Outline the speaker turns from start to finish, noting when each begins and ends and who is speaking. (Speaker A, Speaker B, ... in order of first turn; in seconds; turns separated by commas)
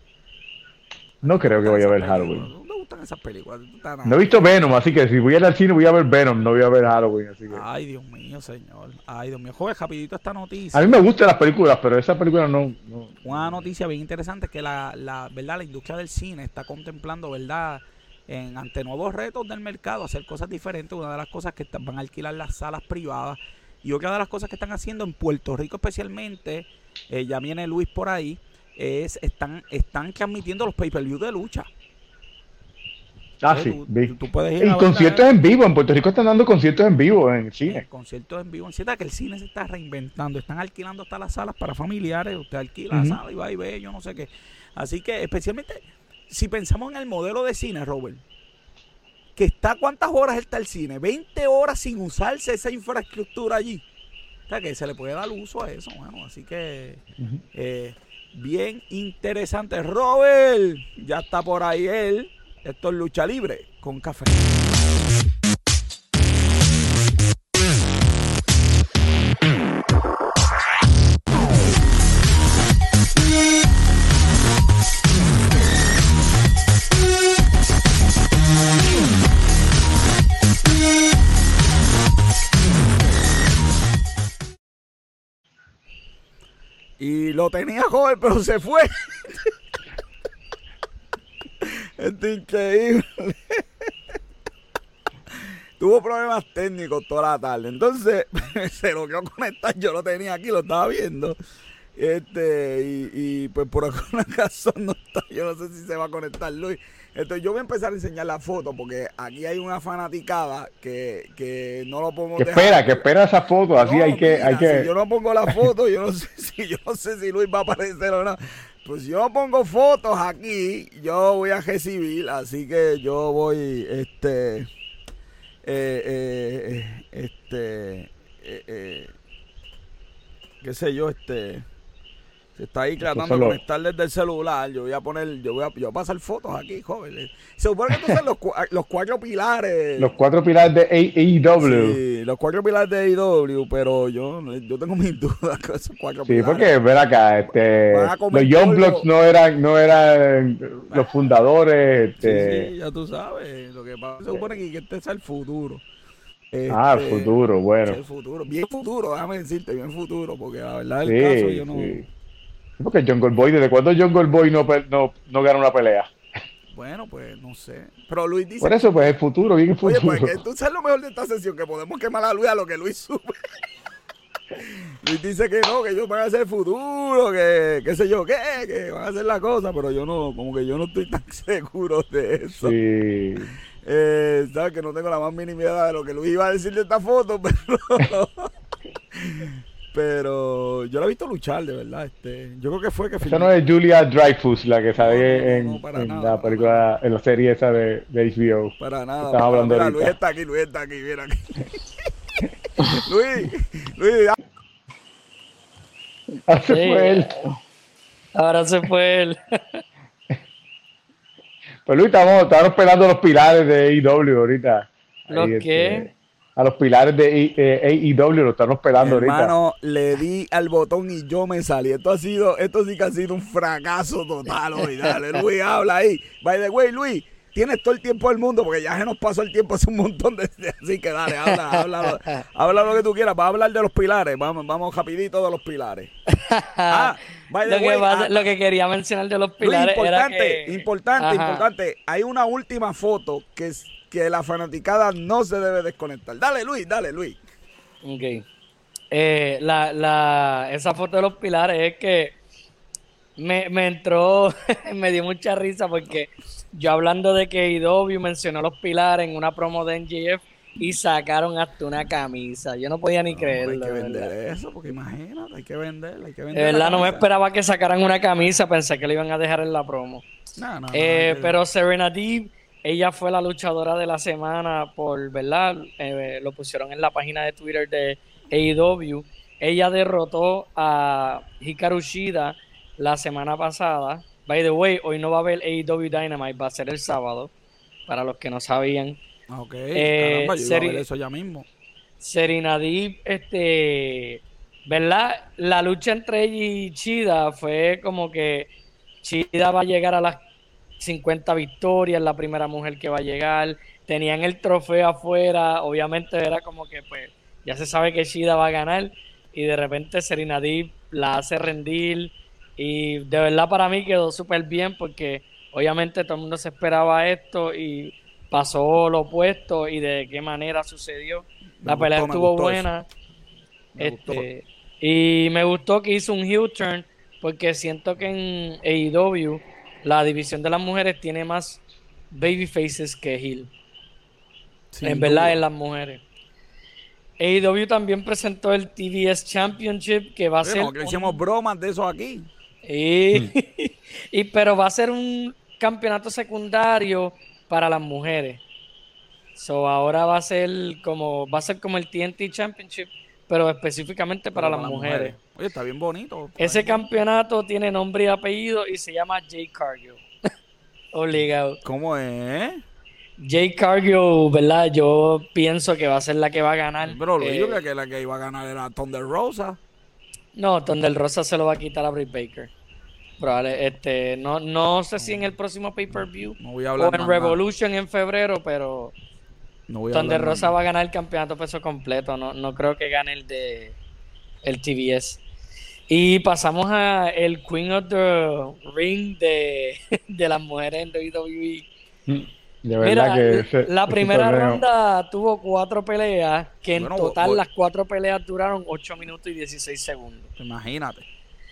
Speaker A: 1.2-4.5, Speaker B: 1.2-2.5, Speaker B: 4.0-7.6, Speaker A: 7.5-11.1, Speaker B: 10.7-13.7, Speaker A: 13.2-31.7, Speaker B: 33.4-37.8, Speaker A: 33.5-35.3, Speaker A: 37.7-48.2, Speaker B: 42.9-43.2, Speaker A: 49.4-53.8, Speaker A: 54.5-57.0, Speaker A: 57.5-64.5, Speaker A: 87.0-89.5, Speaker A: 91.6-93.7, Speaker A: 95.8-101.4, Speaker A: 102.0-113.1, Speaker B: 112.4-114.9, Speaker A: 113.7-124.7, Speaker A: 125.7-129.1, Speaker A: 130.6-131.7, Speaker A: 132.6-140.1, Speaker B: 133.0-133.6, Speaker B: 137.9-138.2, Speaker B: 140.0-142.0, Speaker A: 141.6-146.8, Speaker B: 146.2-152.7, Speaker A: 147.9-149.1, Speaker A: 152.2-155.8, Speaker A: 156.5-162.1, Speaker B: 156.7-158.0, Speaker B: 161.1-162.0, Speaker B: 162.8-166.1, Speaker A: 166.7-169.1, Speaker B: 168.6-170.4, Speaker A: 169.8-173.4, Speaker A: 174.6-182.8, Speaker B: 182.6-183.5, Speaker A: 183.8-188.5, Speaker A: 189.1-193.5, Speaker B: 193.2-198.7, Speaker A: 194.9-196.8, Speaker A: 198.8-204.4, Speaker B: 199.3-200.1, Speaker B: 206.5-207.5, Speaker C: 206.7-207.5, Speaker C: 208.4-209.8, Speaker B: 211.8-219.5, Speaker C: 215.3-216.1, Speaker A: 218.9-236.1, Speaker C: 231.5-232.4, Speaker C: 236.4-241.7, Speaker A: 236.9-238.5, Speaker A: 239.6-247.4, Speaker C: 248.0-248.4, Speaker C: 249.1-252.3, Speaker C: 253.4-264.3, Speaker A: 263.3-267.2, Speaker C: 266.5-270.2, Speaker A: 270.6-271.6, Speaker C: 270.9-287.5, Speaker C: 288.1-289.2, Speaker A: 289.5-291.7, Speaker C: 289.9-291.1, Speaker C: 292.2-298.7, Speaker C: 299.2-300.4, Speaker C: 301.0-323.1, Speaker A: 321.8-322.9, Speaker A: 323.9-324.5, Speaker C: 324.0-331.8, Speaker C: 332.3-333.7, Speaker A: 334.9-335.6, Speaker C: 335.0-336.2, Speaker C: 337.4-341.4, Speaker A: 340.6-342.5, Speaker C: 342.9-348.6, Speaker C: 349.6-355.4, Speaker A: 354.5-357.0, Speaker C: 356.6-360.2, Speaker C: 361.1-361.8, Speaker A: 361.4-362.8, Speaker C: 363.4-367.8, Speaker A: 367.0-369.8, Speaker C: 370.6-372.7, Speaker C: 373.4-379.1, Speaker A: 375.2-375.6, Speaker A: 376.6-377.6, Speaker A: 379.9-380.8, Speaker C: 380.1-383.9, Speaker C: 384.6-385.4, Speaker C: 386.1-391.9, Speaker B: 392.3-394.8, Speaker C: 393.0-400.5, Speaker A: 396.9-397.6, Speaker A: 400.6-401.3